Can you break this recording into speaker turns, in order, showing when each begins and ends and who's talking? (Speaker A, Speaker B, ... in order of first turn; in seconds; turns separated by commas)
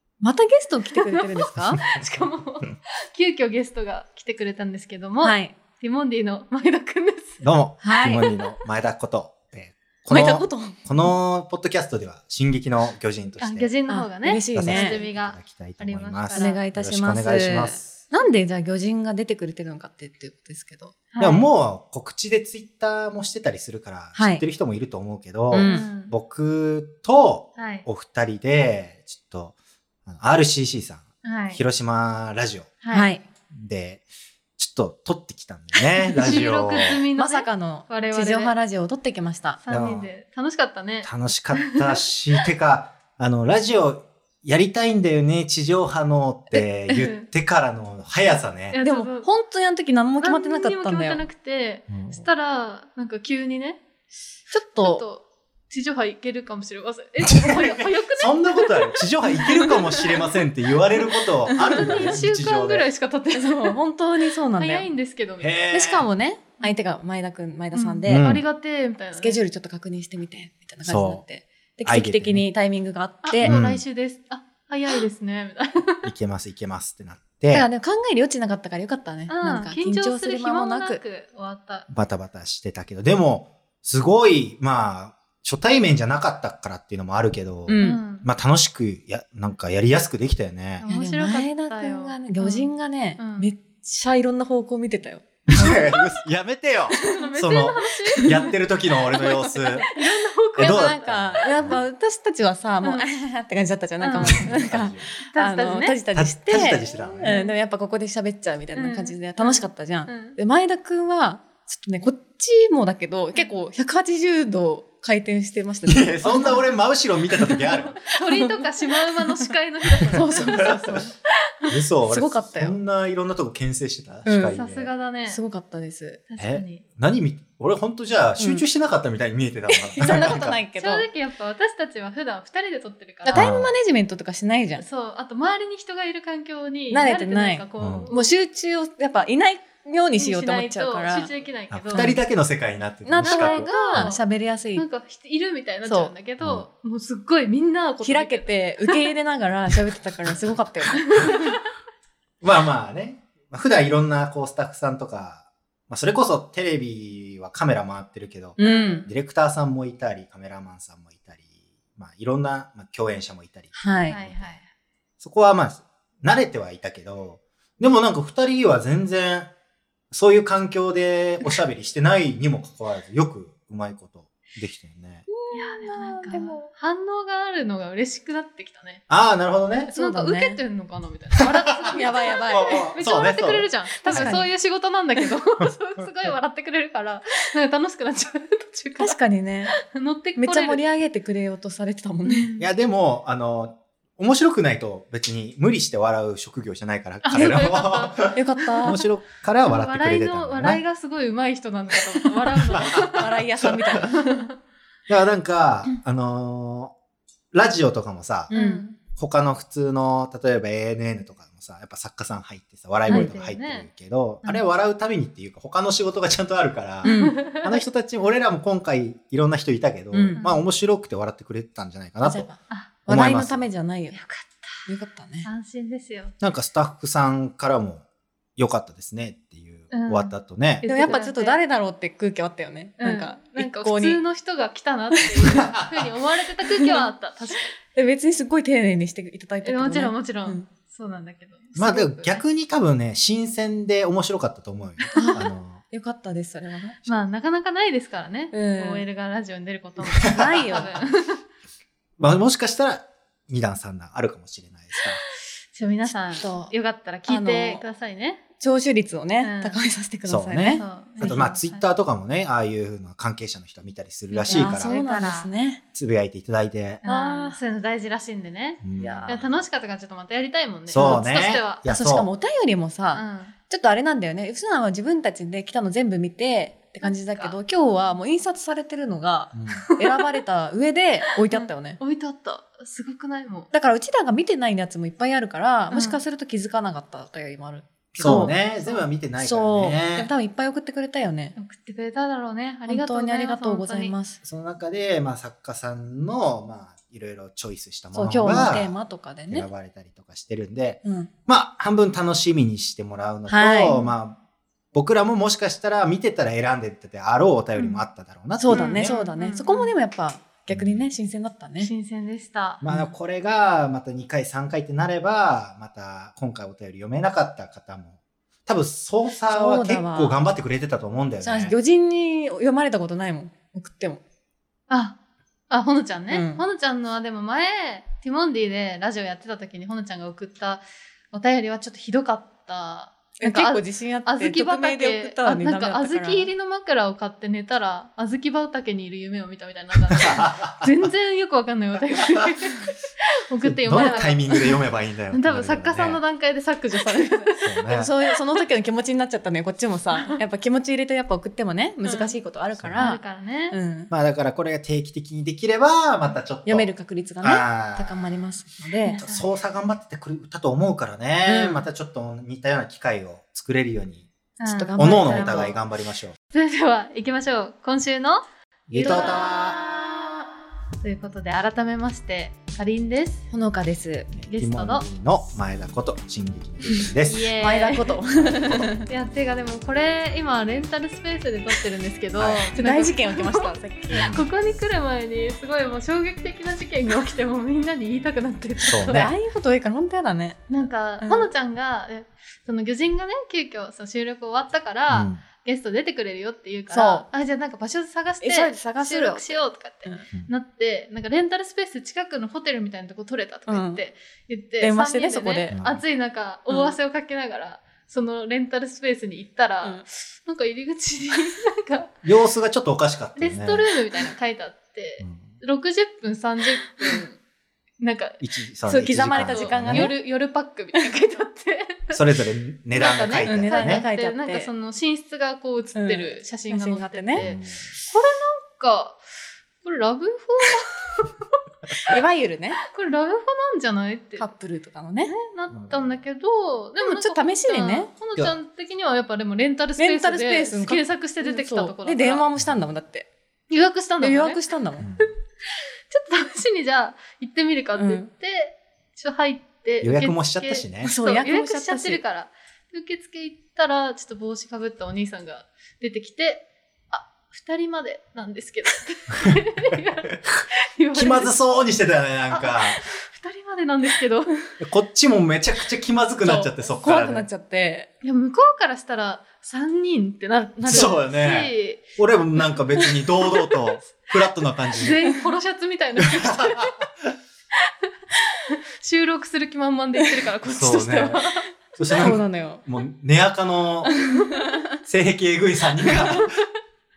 Speaker A: 0.2-1.8, Speaker B: 1.0-7.4, Speaker A: 5.2-5.6, Speaker C: 7.4-13.7, Speaker A: 7.8-8.2, Speaker B: 8.0-8.6, Speaker A: 10.1-10.8, Speaker B: 13.4-16.6, Speaker A: 13.9-15.0, Speaker C: 14.5-18.0, Speaker A: 16.3-21.0, Speaker B: 21.1-21.5, Speaker C: 21.2-32.8, Speaker A: 24.2-24.4, Speaker A: 25.5-25.9, Speaker B: 25.6-26.1, Speaker B: 27.6-27.9, Speaker B: 31.2-31.6, Speaker B: 32.8-33.1, Speaker A: 32.9-33.3, Speaker C: 33.5-34.1, Speaker C: 34.6-37.0, Speaker A: 35.8-36.5, Speaker B: 36.2-38.5, Speaker A: 37.1-39.6, Speaker B: 39.6-41.9, Speaker C: 39.7-40.1, Speaker C: 41.0-48.8, Speaker B: 46.9-47.3, Speaker B: 48.7-49.3, Speaker A: 48.8-51.2, Speaker B: 50.2-53.8, Speaker C: 51.9-52.2, Speaker A: 54.5-55.0, Speaker B: 54.7-60.3, Speaker C: 57.2-62.9, Speaker A: 61.6-62.2, Speaker B: 61.7-63.8, Speaker A: 63.4-64.9, Speaker B: 64.6-65.5, Speaker C: 65.4-66.1, Speaker A: 65.7-68.3, Speaker B: 67.7-69.4, Speaker C: 68.1-68.5, Speaker A: 69.2-73.5, Speaker C: 70.8-71.2, Speaker C: 71.8-72.5, Speaker B: 73.2-76.1, Speaker C: 73.4-73.8, Speaker C: 76.0-77.7, Speaker A: 77.5-81.0, Speaker B: 79.3-81.9, Speaker C: 81.9-90.8, Speaker A: 87.7-88.0, Speaker B: 87.8-88.3, Speaker B: 90.8-93.5, Speaker A: 90.8-95.9, Speaker C: 95.5-99.9, Speaker B: 97.0-98.6, Speaker A: 97.0-97.3, Speaker A: 98.2-98.5, Speaker A: 99.1-100.0, Speaker B: 99.8-101.0, Speaker C: 100.6-101.8, Speaker A: 100.6-116.6, Speaker B: 102.8-103.1, Speaker B: 104.0-104.6, Speaker C: 104.2-105.1, Speaker B: 105.3-106.0, Speaker C: 106.1-107.3, Speaker B: 106.8-107.6, Speaker B: 108.8-110.4, Speaker C: 115.8-118.0, Speaker A: 117.3-119.5, Speaker B: 118.0-120.7, Speaker A: 120.1-121.2, Speaker C: 120.3-121.0, Speaker C: 121.7-124.9, Speaker A: 122.1-122.8, Speaker A: 124.3-124.6, Speaker B: 124.5-125.4, Speaker A: 125.3-126.2, Speaker B: 126.3-126.8, Speaker C: 126.4-130.6, Speaker A: 128.4-128.7, Speaker A: 129.7-131.1, Speaker B: 130.0-133.5, Speaker A: 133.2-134.8, Speaker C: 133.3-133.7, Speaker B: 134.8-138.3, Speaker A: 136.9-141.3, Speaker C: 137.8-138.1, Speaker B: 140.2-142.2, Speaker C: 141.7-144.1, Speaker A: 141.9-142.2, Speaker A: 143.1-144.9, Speaker B: 143.2-144.2, Speaker B: 144.8-149.1, Speaker A: 145.9-146.1, Speaker C: 146.4-146.7, Speaker A: 148.0-151.3, Speaker B: 151.0-151.6, Speaker C: 152.4-164.6, Speaker A: 158.6-159.1, Speaker B: 158.6-159.1, Speaker A: 163.7-164.2, Speaker B: 164.1-164.7, Speaker C: 165.2-169.5, Speaker C: 170.1-175.3, Speaker A: 175.3-176.7, Speaker B: 175.5-179.0, Speaker C: 179.1-179.9, Speaker B: 179.9-189.2, Speaker A: 179.9-180.6, Speaker C: 181.5-181.9, Speaker A: 181.9-182.9, Speaker C: 182.5-184.3, Speaker A: 184.0-184.5, Speaker A: 189.0-189.8, Speaker B: 189.7-190.8, Speaker A: 190.4-192.5, Speaker B: 192.2-192.7, Speaker C: 192.6-200.8, Speaker B: 197.2-198.9, Speaker A: 198.3-199.0, Speaker B: 199.7-203.3, Speaker C: 202.7-203.2, Speaker A: 202.9-204.4, Speaker B: 204.0-204.5, Speaker C: 205.1-206.9, Speaker C: 207.5-208.5, Speaker B: 208.5-209.0, Speaker A: 208.5-208.8, Speaker C: 209.1-222.5, Speaker A: 213.1-213.3, Speaker B: 213.1-213.9, Speaker B: 217.0-217.8, Speaker A: 217.1-217.4, Speaker A: 220.1-220.4, Speaker B: 220.3-220.6, Speaker A: 222.2-224.2, Speaker C: 223.1-223.7, Speaker B: 224.1-224.9, Speaker A: 224.9-225.5, Speaker B: 225.4-226.4, Speaker C: 226.4-228.0, Speaker C: 228.6-230.9, Speaker B: 229.9-231.6, Speaker A: 230.8-234.2, Speaker B: 233.0-237.7, Speaker A: 235.2-235.6, Speaker C: 235.5-236.1, Speaker A: 236.7-237.1, Speaker A: 237.9-240.7, Speaker B: 239.6-242.4, Speaker C: 241.8-245.8, Speaker A: 245.1-247.2, Speaker B: 247.1-251.4, Speaker A: 248.5-249.1, Speaker C: 250.2-250.8, Speaker A: 250.3-250.9, Speaker C: 252.2-255.2, Speaker B: 255.0-258.4, Speaker A: 256.1-256.7, Speaker A: 257.3-257.9, Speaker A: 258.6-261.5, Speaker B: 259.4-259.8, Speaker C: 260.3-265.0, Speaker B: 260.8-261.8, Speaker B: 264.3-265.5, Speaker A: 264.5-265.8, Speaker C: 265.9-267.0, Speaker B: 267.0-271.8, Speaker A: 267.0-267.6, Speaker C: 268.8-269.4, Speaker A: 269.0-269.5, Speaker C: 270.9-272.3, Speaker A: 271.8-282.0, Speaker B: 273.1-273.5, Speaker B: 277.0-277.6, Speaker C: 279.5-279.9, Speaker B: 279.9-280.2, Speaker B: 281.5-283.7, Speaker A: 283.7-288.6, Speaker B: 285.9-286.2, Speaker C: 288.1-290.3, Speaker B: 288.2-289.0, Speaker A: 289.4-291.6, Speaker B: 291.6-294.1, Speaker A: 292.9-294.4, Speaker C: 294.4-298.9, Speaker A: 298.1-299.7, Speaker C: 299.5-304.4, Speaker A: 301.0-301.3, Speaker A: 303.5-304.0, Speaker C: 304.9-309.1, Speaker B: 307.8-308.0, Speaker A: 308.6-311.9, Speaker B: 308.7-309.9, Speaker C: 310.7-311.0, Speaker B: 311.8-312.8, Speaker C: 312.8-321.8, Speaker A: 319.5-320.4, Speaker A: 321.4-324.2, Speaker B: 324.9-325.2, Speaker B: 325.7-344.8, Speaker A: 326.3-326.6, Speaker A: 333.4-336.5, Speaker C: 340.2-340.9, Speaker C: 343.6-346.2, Speaker A: 343.9-344.3, Speaker B: 345.3-347.7, Speaker A: 347.3-354.1, Speaker C: 347.6-348.1, Speaker B: 352.1-352.4, Speaker C: 352.8-353.1, Speaker B: 353.0-353.8, Speaker C: 354.1-358.6, Speaker A: 356.6-359.4, Speaker B: 359.0-359.4, Speaker C: 359.2-364.3, Speaker A: 361.4-361.9, Speaker B: 364.6-365.8, Speaker A: 364.7-365.8, Speaker C: 365.0-366.4, Speaker B: 366.5-368.4, Speaker C: 368.9-369.8, Speaker A: 368.9-369.5, Speaker B: 368.9-370.1, Speaker B: 371.0-373.5, Speaker A: 373.5-374.3, Speaker C: 374.3-377.5, Speaker B: 374.5-375.1, Speaker B: 377.2-378.2, Speaker A: 377.6-379.1, Speaker C: 378.4-378.9, Speaker B: 379.0-389.3, Speaker C: 382.4-382.7, Speaker A: 382.7-384.3, Speaker C: 384.1-384.5, Speaker C: 388.8-389.3, Speaker A: 389.1-391.5, Speaker B: 390.7-412.1, Speaker C: 395.1-395.4, Speaker A: 396.9-397.3, Speaker A: 398.4-400.3, Speaker A: 403.7-404.0, Speaker A: 404.8-405.8, Speaker C: 405.7-406.0, Speaker A: 406.7-407.0, Speaker C: 412.2-413.9, Speaker B: 413.4-417.4, Speaker C: 415.2-415.5, Speaker A: 416.9-417.3, Speaker B: 418.0-418.4, Speaker C: 418.4-420.1, Speaker A: 418.9-420.2, Speaker B: 419.3-422.2, Speaker A: 420.9-421.4, Speaker C: 422.1-424.0, Speaker B: 422.9-427.6, Speaker A: 423.4-424.7, Speaker A: 425.9-427.5, Speaker C: 427.4-427.8, Speaker B: 428.1-429.2, Speaker B: 429.8-431.3, Speaker A: 432.1-432.8, Speaker B: 432.9-434.5, Speaker A: 434.4-435.3, Speaker B: 435.3-442.5, Speaker C: 435.7-436.2, Speaker A: 437.0-438.1, Speaker A: 440.0-443.3, Speaker B: 443.7-444.6, Speaker A: 444.2-445.1, Speaker C: 445.0-445.3, Speaker B: 445.2-461.6, Speaker A: 448.0-448.3, Speaker C: 450.0-451.1, Speaker A: 451.0-452.2, Speaker C: 461.1-463.0, Speaker B: 462.5-464.5, Speaker C: 464.8-467.5, Speaker A: 466.4-468.1, Speaker B: 468.2-472.0, Speaker A: 470.8-471.1, Speaker C: 470.9-475.2, Speaker B: 475.0-477.1, Speaker C: 476.2-476.9, Speaker B: 478.7-481.7, Speaker C: 480.7-481.4, Speaker C: 482.0-484.1, Speaker A: 482.1-482.8, Speaker A: 484.1-484.9, Speaker B: 484.1-484.6, Speaker C: 485.1-486.6